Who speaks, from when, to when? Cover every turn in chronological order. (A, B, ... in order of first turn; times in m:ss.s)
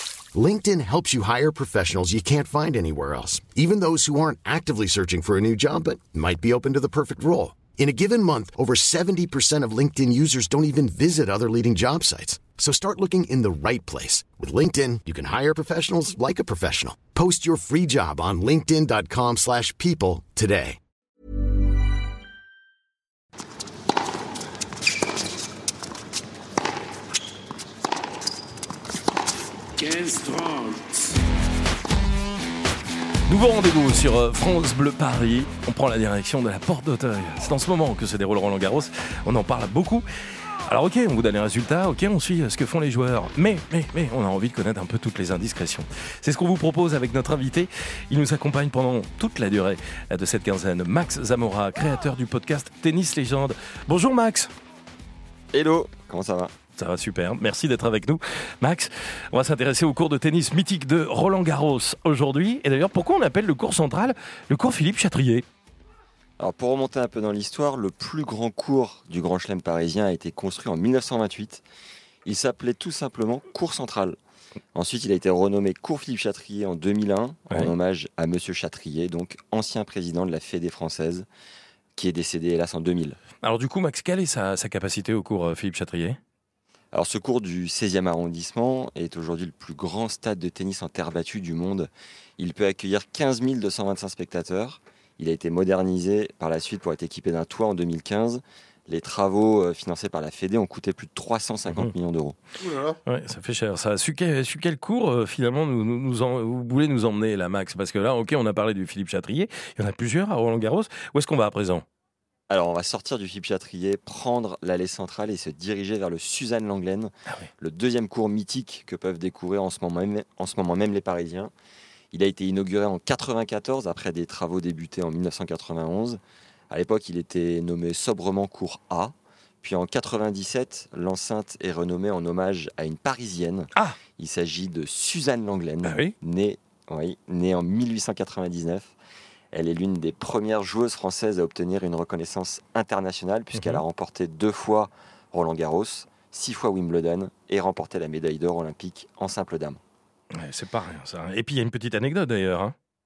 0:00.3-0:20.8 A
0:33.3-0:40.0 B
0:40.7-0:54.5 B
0:55.5-0:56.5 C
0:56.8-1:05.4 B
1:06.4-1:11.6 C
1:12.2-1:14.2 C
1:14.7-1:21.3 C
1:22.0-1:23.2 C
1:23.4-1:26.2 B
1:26.9-1:42.4 C
1:43.1-1:51.8 B
1:52.5-2:01.5 C
2:02.1-2:18.9 C
2:15.8-2:16.1 B
2:19.5-2:29.8 C
2:23.5-2:23.8 B
2:30.3-2:32.8 B